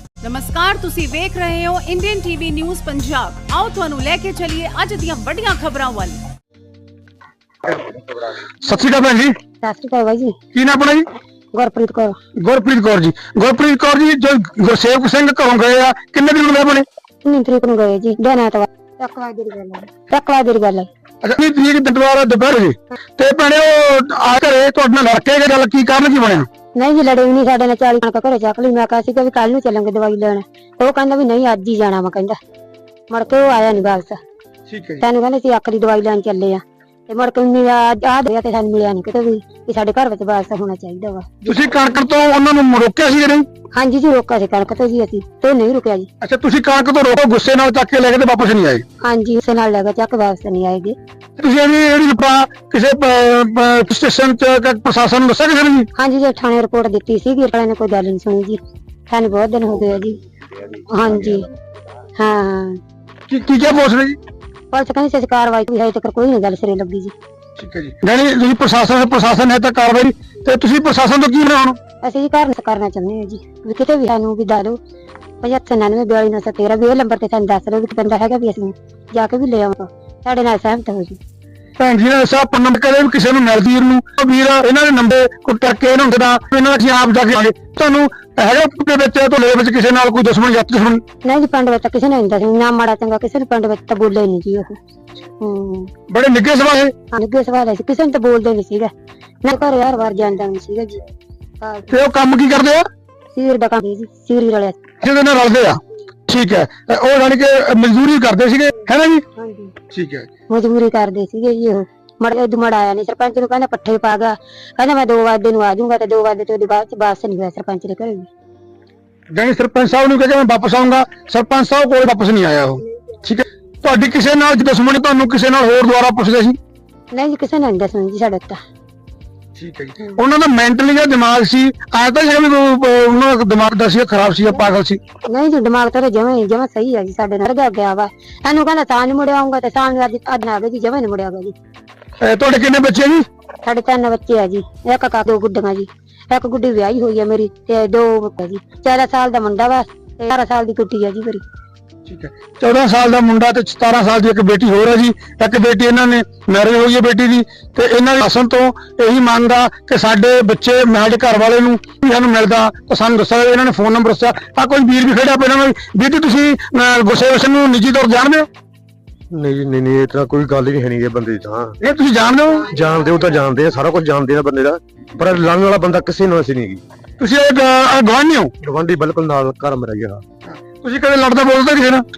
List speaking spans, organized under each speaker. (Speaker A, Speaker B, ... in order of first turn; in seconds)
Speaker A: 0.2-6.2
Speaker B: 7.6-8.0, 8.6-9.3, 10.5-11.1, 12.4-16.9, 21.2-26.5, 34.7-35.0, 41.5-43.5, 46.2-48.8, 51.4-55.9, 63.3-64.2, 67.6-71.8, 81.8-91.0, 96.1-96.9, 101.9-102.8, 105.0-109.2, 109.9-110.3, 119.3-126.6, 129.5-135.0, 142.2-143.2, 152.1-168.5, 171.8-172.7, 177.2-178.5, 180.4-182.0
Speaker C: 9.6-10.4, 11.5-12.2, 17.2-20.9, 26.8-32.4, 33.1-34.2, 35.0-41.4, 43.7-46.1, 49.0-51.0, 56.0-60.2, 60.7-61.5, 62.2-62.8, 64.7-67.1, 72.0-74.8, 75.4-81.2, 91.2-94.7, 95.4-95.9, 97.1-98.9, 99.4-101.0, 101.6-101.9, 103.3-104.8, 109.3-109.7, 110.5-118.3, 127.1-128.6, 135.2-141.6, 143.6-151.4
Speaker D: 169.3-171.8, 172.7-176.8, 178.6-180.2